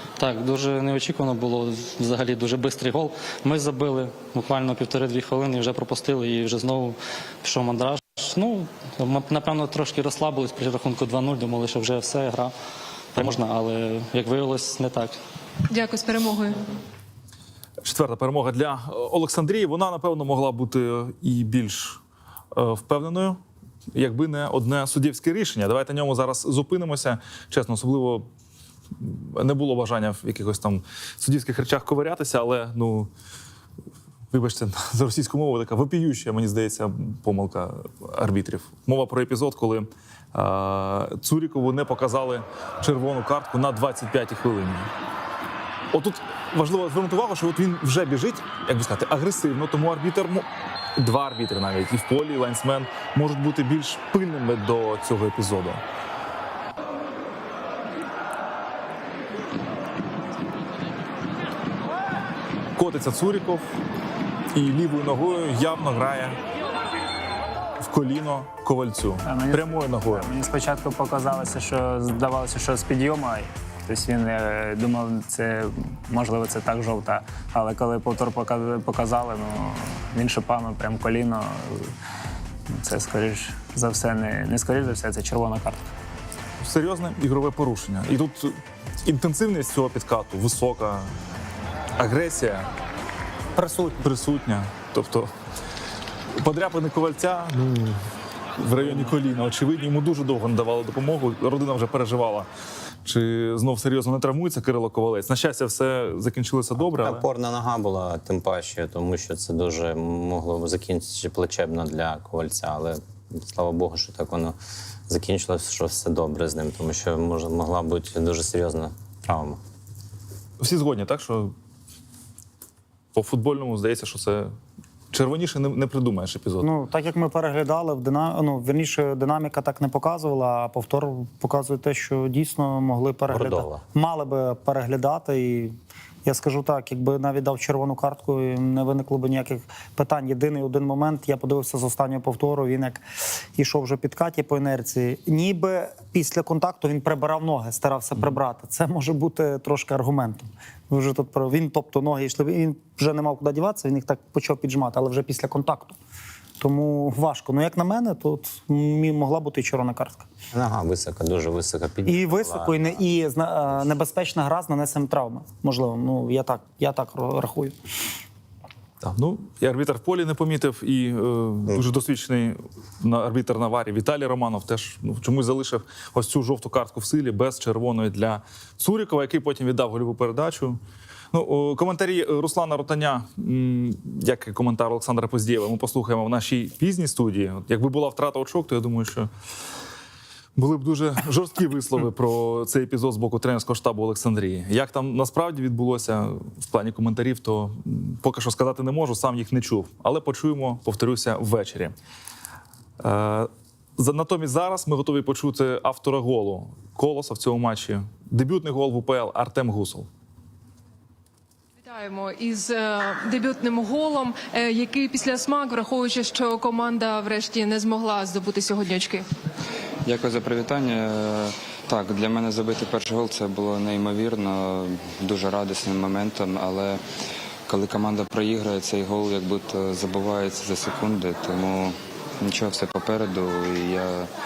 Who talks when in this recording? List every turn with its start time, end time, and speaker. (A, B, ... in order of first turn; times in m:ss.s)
0:00.2-0:12.5 A
0:13.1-0:15.2 A
0:15.7-0:16.6 B
0:17.8-0:22.0 C
0:22.5-0:23.4 C
0:23.9-0:28.3 C
0:29.0-0:33.1 C
0:34.3-0:44.9 C
0:45.9-0:55.8 C
1:02.8-1:03.7 C
1:04.5-1:06.4 C
1:07.8-1:10.3 C
1:09.2-1:21.9 D
1:22.7-1:25.9 D
1:26.6-1:31.1 C
1:32.0-1:32.7 C
1:33.6-1:34.0 E
1:34.0-1:35.3 C
1:36.4-1:38.0 C
1:38.6-1:42.5 C
1:43.0-1:47.2 C
1:46.8-1:54.6 F
1:55.1-1:59.6 F
2:00.6-2:01.5 C
2:03.1-2:04.5 C
2:05.1-2:06.7 C
2:06.6-2:23.0 E
2:13.3-2:13.8 F
2:23.6-2:36.0 E
2:36.6-2:40.3 E
2:40.5-2:43.0 F
2:42.0-2:47.8 E
2:49.0-3:00.8 C
3:01.3-3:09.3 C
3:10.6-3:21.9 C
3:23.0-3:30.1 C
3:31.8-3:39.2 B
3:40.0-3:47.0 G
3:47.7-3:54.3 G